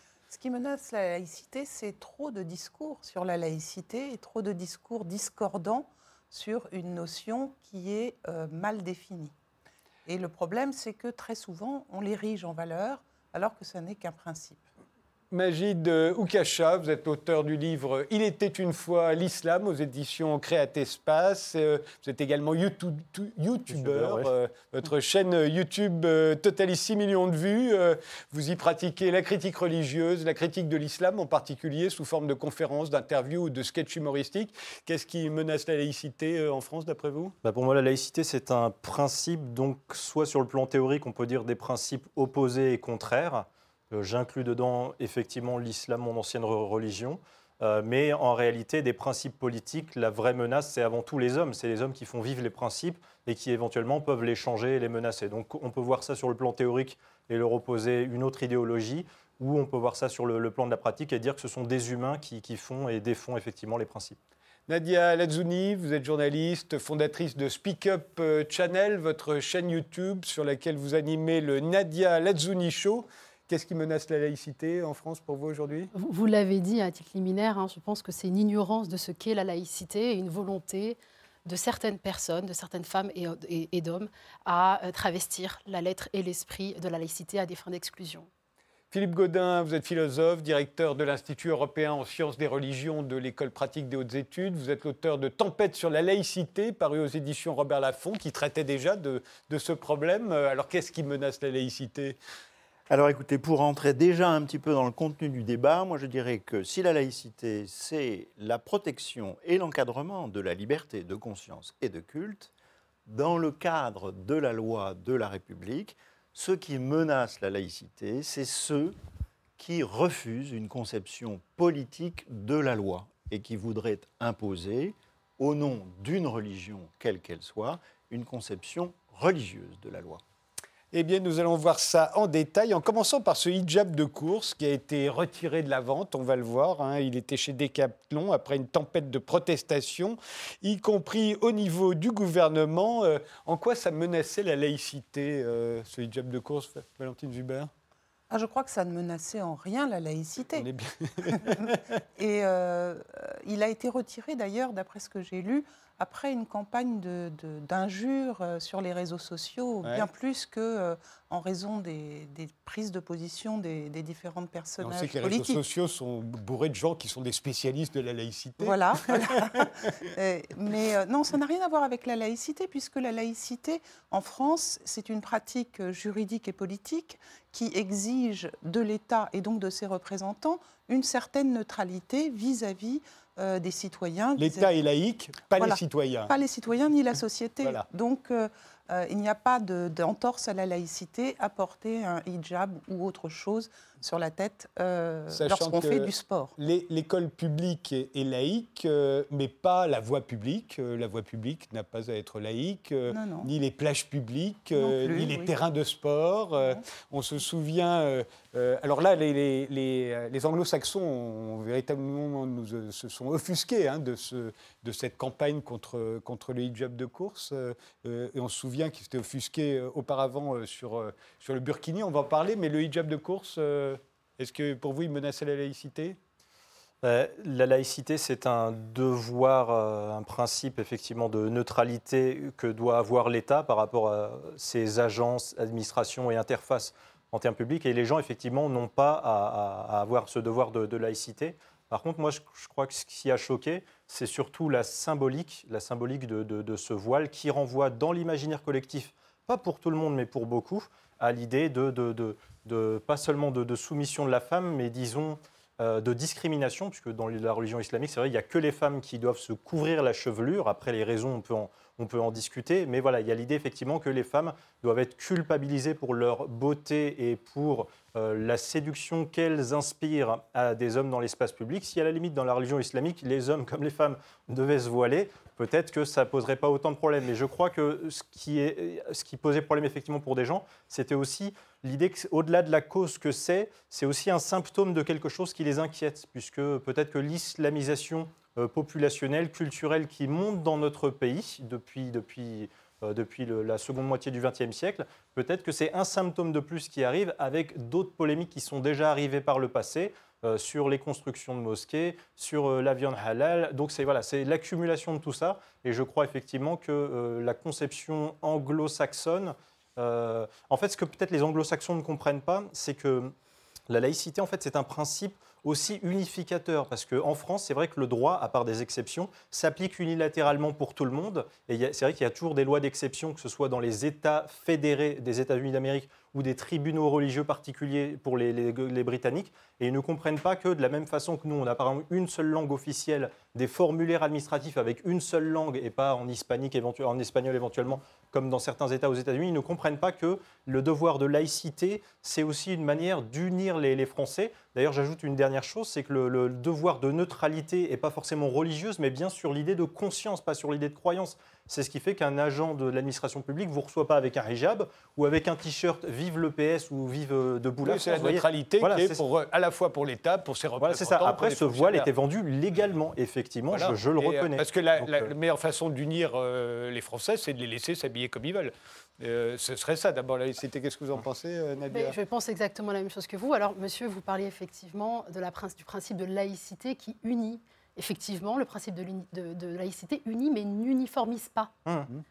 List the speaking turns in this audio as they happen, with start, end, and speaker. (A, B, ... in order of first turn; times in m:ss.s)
0:00.3-0:09.3 A
0:10.0-0:14.6 A
0:15.3-0:37.3 B
0:23.7-0:24.3 C
0:37.4-1:04.2 C
1:04.7-1:15.9 B
1:15.9-1:28.3 D
1:28.9-1:42.2 B
1:42.9-1:52.5 E
1:53.1-1:58.9 E
1:59.6-2:10.2 E
2:10.9-2:27.7 B
2:28.3-2:30.7 A
2:30.6-2:31.8 B
2:31.2-2:45.6 A
2:44.8-2:49.9 B
2:48.6-3:04.7 A
3:04.4-3:06.3 B
3:05.6-3:16.5 A
3:15.3-3:46.2 B
3:23.1-3:23.5 A
3:24.8-3:25.5 A
3:26.6-3:26.8 A
3:47.0-5:13.3 C
5:13.9-5:59.2 C
5:57.8-6:02.1 B
6:00.8-6:05.3 C
6:03.7-6:12.2 B
6:11.9-6:21.7 D